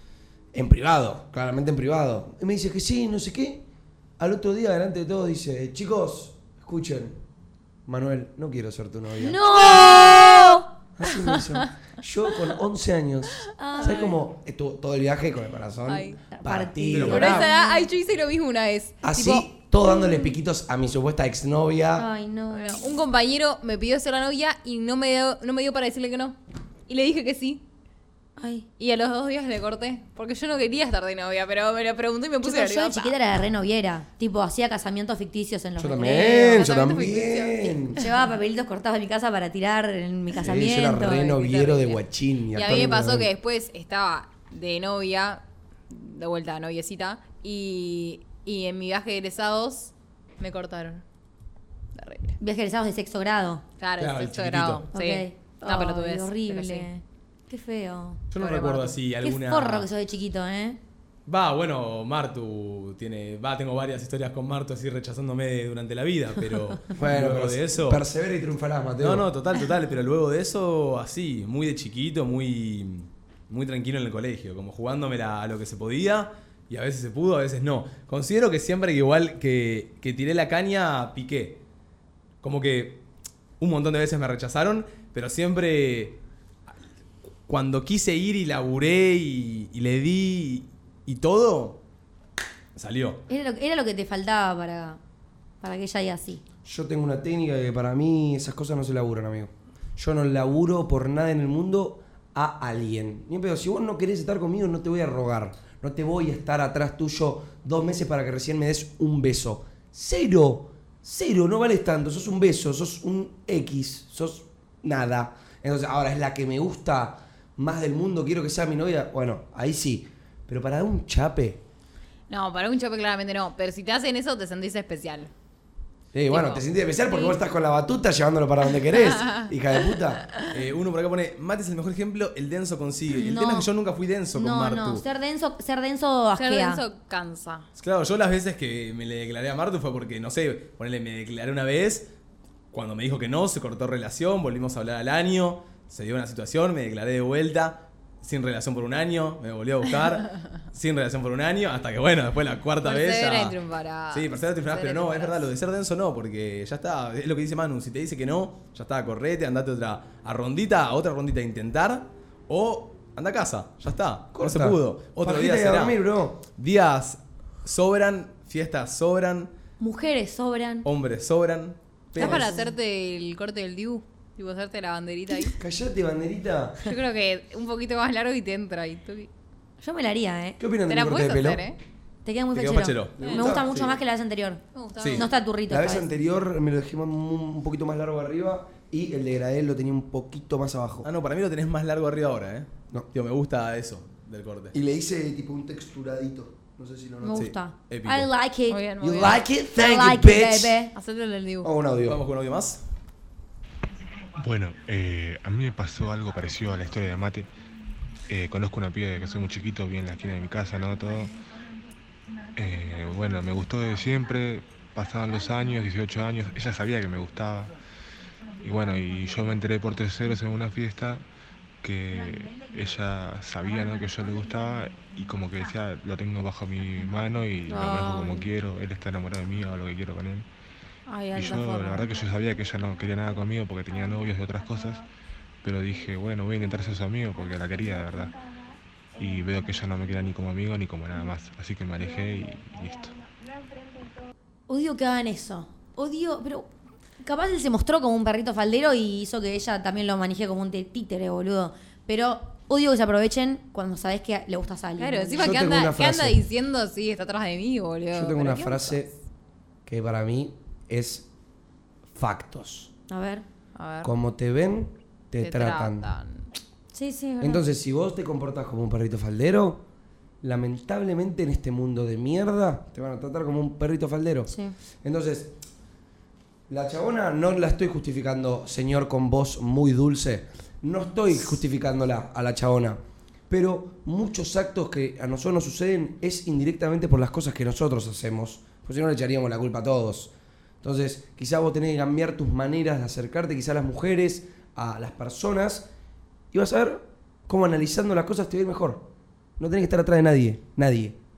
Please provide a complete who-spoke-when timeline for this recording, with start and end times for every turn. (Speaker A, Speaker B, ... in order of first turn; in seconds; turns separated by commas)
Speaker A: 0.5-3.6, Speaker A: 4.2-7.2, Speaker A: 7.9-10.0, Speaker B: 9.2-10.7, Speaker C: 9.6-10.3, Speaker A: 11.0-17.5, Speaker B: 13.6-14.1, Speaker C: 13.8-14.1, Speaker C: 15.9-16.2, Speaker B: 16.3-17.9, Speaker D: 16.9-17.4, Speaker C: 17.1-19.5, Speaker A: 19.0-22.1, Speaker B: 19.9-20.2, Speaker B: 22.0-22.8, Speaker C: 22.5-27.6, Speaker B: 28.4-28.7, Speaker C: 28.8-33.1, Speaker B: 32.4-36.5, Speaker A: 35.8-38.0, Speaker C: 36.0-38.0, Speaker B: 38.0-41.3, Speaker A: 40.4-43.3, Speaker C: 41.0-42.0, Speaker C: 42.5-51.0, Speaker C: 52.0-52.4, Speaker B: 52.4-53.6, Speaker C: 53.8-56.9, Speaker D: 54.0-54.9, Speaker B: 54.9-58.2, Speaker D: 58.3-59.9, Speaker C: 58.4-59.0, Speaker B: 59.2-60.8, Speaker D: 61.3-68.0, Speaker A: 66.9-69.3, Speaker D: 69.0-81.6, Speaker D: 82.4-83.0, Speaker D: 83.6-86.2, Speaker D: 87.5-91.8, Speaker D: 92.8-93.2, Speaker B: 93.3-95.0, Speaker B: 95.6-96.4, Speaker A: 96.7-121.6, Speaker C: 122.3-125.3, Speaker A: 126.1-130.2, Speaker C: 126.3-127.4, Speaker C: 129.1-129.5, Speaker D: 130.5-135.1, Speaker B: 133.1-133.7, Speaker B: 134.3-136.8, Speaker C: 136.4-137.7, Speaker D: 137.8-142.1, Speaker D: 142.7-153.6, Speaker C: 152.8-155.4, Speaker D: 154.1-166.0, Speaker A: 164.3-166.4, Speaker D: 166.6-169.5, Speaker B: 169.8-170.9, Speaker D: 170.8-172.5, Speaker C: 172.2-175.6, Speaker B: 172.2-172.7, Speaker A: 175.6-176.9, Speaker C: 176.8-179.3, Speaker B: 179.8-180.6, Speaker A: 180.6-181.7, Speaker C: 180.9-181.8, Speaker B: 182.2-186.1, Speaker D: 182.5-183.9, Speaker A: 183.2-184.0, Speaker C: 183.2-183.5, Speaker C: 184.7-185.3, Speaker D: 185.0-185.3, Speaker A: 185.7-191.1, Speaker D: 191.0-194.8, Speaker A: 194.7-197.5, Speaker B: 197.2-200.9, Speaker D: 197.3-198.3, Speaker C: 198.7-199.4, Speaker A: 199.0-200.8, Speaker C: 201.0-201.7, Speaker A: 201.6-202.2, Speaker D: 202.1-202.8, Speaker E: 204.4-207.5, Speaker E: 208.3-211.3, Speaker E: 212.6-217.7, Speaker E: 218.6-221.2, Speaker E: 221.8-230.5, Speaker B: 227.7-228.5, Speaker B: 231.1-232.1, Speaker E: 231.3-235.0, Speaker E: 235.6-238.3, Speaker E: 239.2-243.1, Speaker B: 244.7-246.7, Speaker B: 247.2-255.5, Speaker C: 255.0-259.1, Speaker A: 255.4-256.4, Speaker A: 258.1-259.1, Speaker A: 259.9-261.3, Speaker A: 262.1-262.9, Speaker B: 263.1-263.4, Speaker C: 263.8-264.1, Speaker A: 264.0-266.1, Speaker C: 265.4-266.5, Speaker B: 266.9-267.6, Speaker A: 267.4-269.8, Speaker A: 270.4-275.6, Speaker B: 274.5-274.8, Speaker A: 276.7-295.9, Speaker A: 296.5-301.2